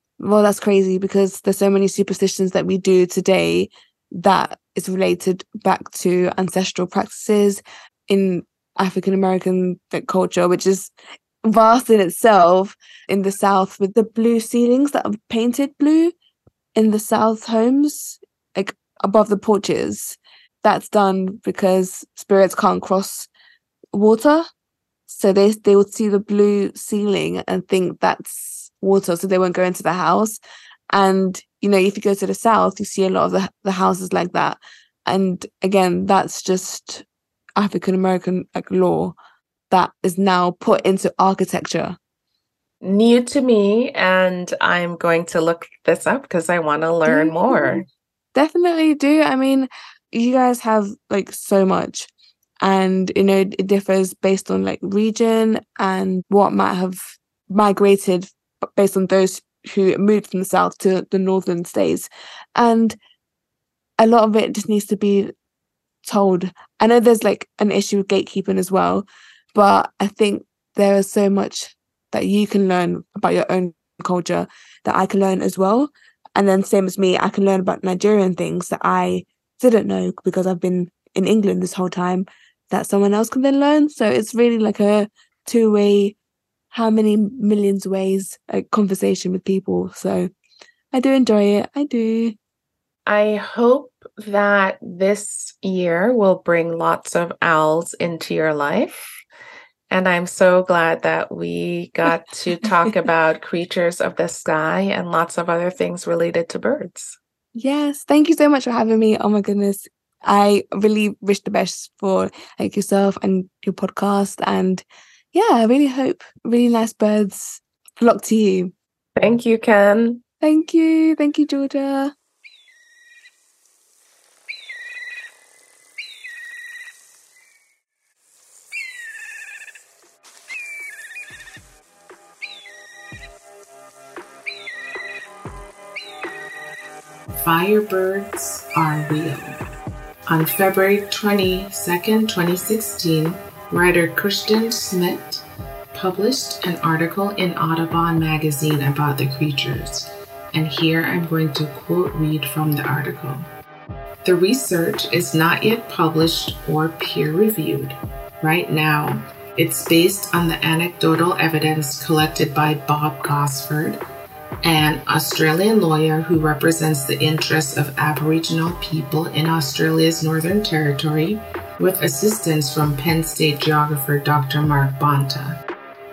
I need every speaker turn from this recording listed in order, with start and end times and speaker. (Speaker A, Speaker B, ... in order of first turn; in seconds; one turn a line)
Speaker A: 0.2-16.1
Speaker A: 16.8-23.3
Speaker A: 23.9-24.5
Speaker A: 25.1-37.0
Speaker A: 37.6-39.2
Speaker A: 39.7-42.0
Speaker B: 42.8-47.9
Speaker A: 47.1-47.8
Speaker A: 48.4-52.1
Speaker A: 52.6-63.0
Speaker A: 64.0-65.3
Speaker A: 66.0-86.2
Speaker A: 86.7-90.3
Speaker A: 90.9-92.4
Speaker B: 93.1-99.2
Speaker B: 99.9-107.2
Speaker A: 107.5-118.7
Speaker B: 119.2-120.2
Speaker A: 120.4-122.1
Speaker B: 137.4-139.6
Speaker B: 140.3-153.4
Speaker B: 154.2-164.0
Speaker B: 164.6-175.6